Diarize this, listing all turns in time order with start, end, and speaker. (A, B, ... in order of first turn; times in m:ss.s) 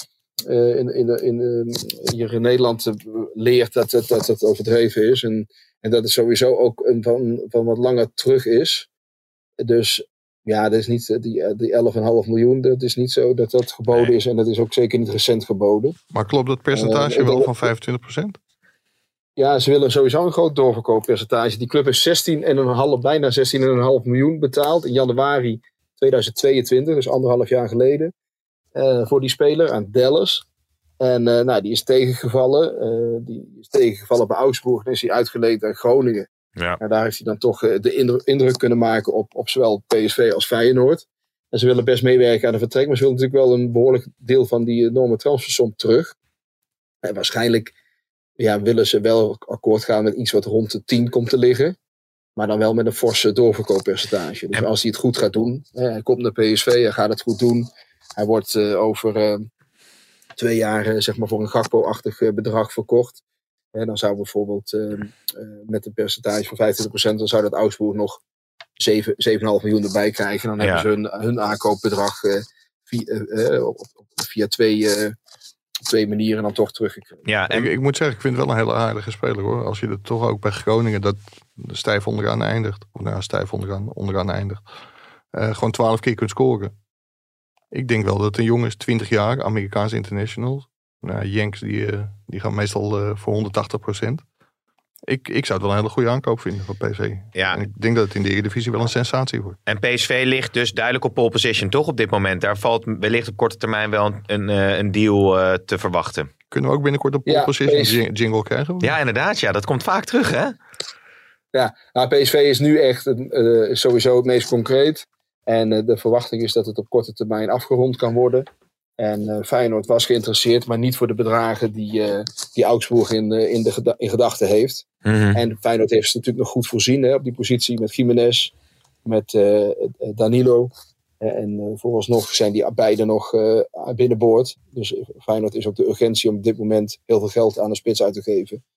0:00.5-0:08.9 A
0:09.6-0:16.0 A
0:16.1-0:18.4 B
0:16.7-0:17.7 A
0:19.4-0:28.1 A
0:28.8-0:30.4 A
0:31.0-0:46.2 A
0:47.0-0:47.7 A
0:48.4-0:51.8 A
0:52.4-0:59.5 A
1:00.4-1:03.2 A
1:03.7-1:08.2 A
1:08.8-1:15.2 A
1:10.6-1:10.9 C
1:15.9-1:17.3 A
1:17.3-1:17.7 C
1:17.5-1:24.6 B
1:25.3-1:26.7 B
1:27.7-1:34.2 B
1:35.1-1:39.6 B
1:37.4-1:37.6 C
1:39.7-1:46.3 C
1:46.5-1:49.0 B
1:47.3-1:48.0 A
1:48.8-1:50.6 C
1:51.5-1:58.5 A
1:59.0-2:08.5 A
2:05.1-2:05.4 C
2:09.0-2:18.6 A